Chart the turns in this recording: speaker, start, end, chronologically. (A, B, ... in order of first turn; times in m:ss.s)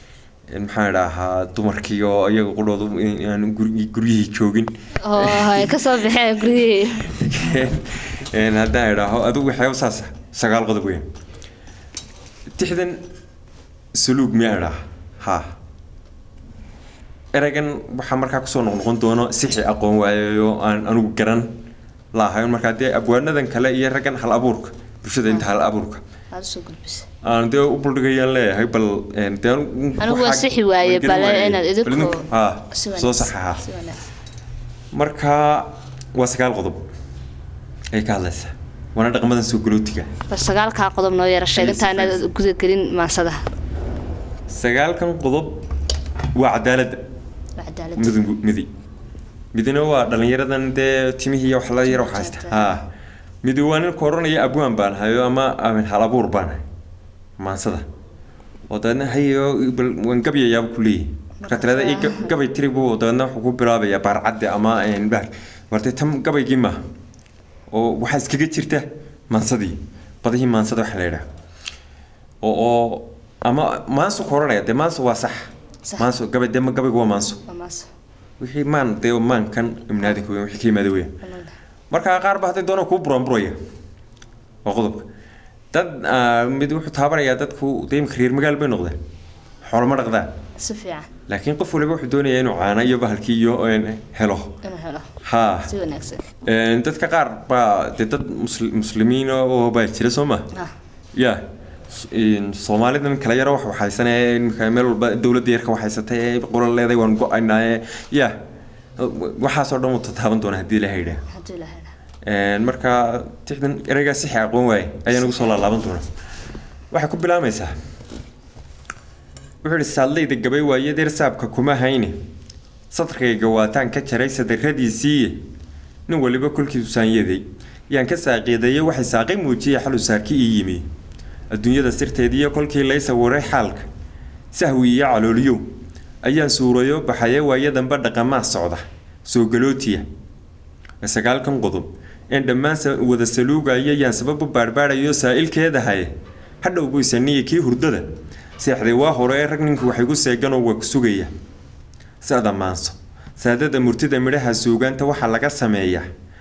0:00.5-0:06.0 A
0:05.0-0:07.1 B
0:07.0-0:11.1 A
0:12.5-0:13.0 A
0:13.9-0:15.5 A
0:17.3-0:21.5 A
0:22.1-0:26.0 A
0:26.3-0:27.1 B
0:27.2-0:33.6 A
0:30.0-0:34.0 B
0:34.9-0:36.8 A
0:37.9-0:40.1 A
0:40.3-0:43.4 B
0:41.5-0:42.2 A
0:44.5-0:45.6 A
0:46.3-0:47.0 A
0:47.6-0:48.2 B
0:48.0-0:48.7 A
0:49.5-0:52.9 A
0:51.8-0:52.8 B
0:53.4-0:56.6 A
0:57.4-0:57.9 A
0:58.7-1:06.8 A
1:01.4-1:02.3 B
1:07.7-1:11.3 A
1:12.4-1:17.4 A
1:17.4-1:17.9 B
1:18.4-1:21.1 A
1:21.2-1:21.5 B
1:21.9-1:23.6 A
1:24.6-1:25.1 A
1:25.7-1:29.0 A
1:29.6-1:30.3 A
1:30.6-1:31.1 B
1:31.3-1:34.6 A
1:34.6-1:35.1 B
1:35.2-1:35.7 A
1:35.6-1:36.2 B
1:36.4-1:40.5 A
1:41.1-1:48.4 A
1:49.0-1:51.2 A
1:51.3-1:51.9 B
1:52.2-1:56.1 A
1:56.9-1:57.7 A
1:59.6-2:02.2 A
2:02.9-2:05.5 A
2:06.1-2:10.9 A
2:11.5-2:13.9 A
2:14.5-2:20.0 A
2:21.0-2:31.3 A
2:32.2-2:36.1 A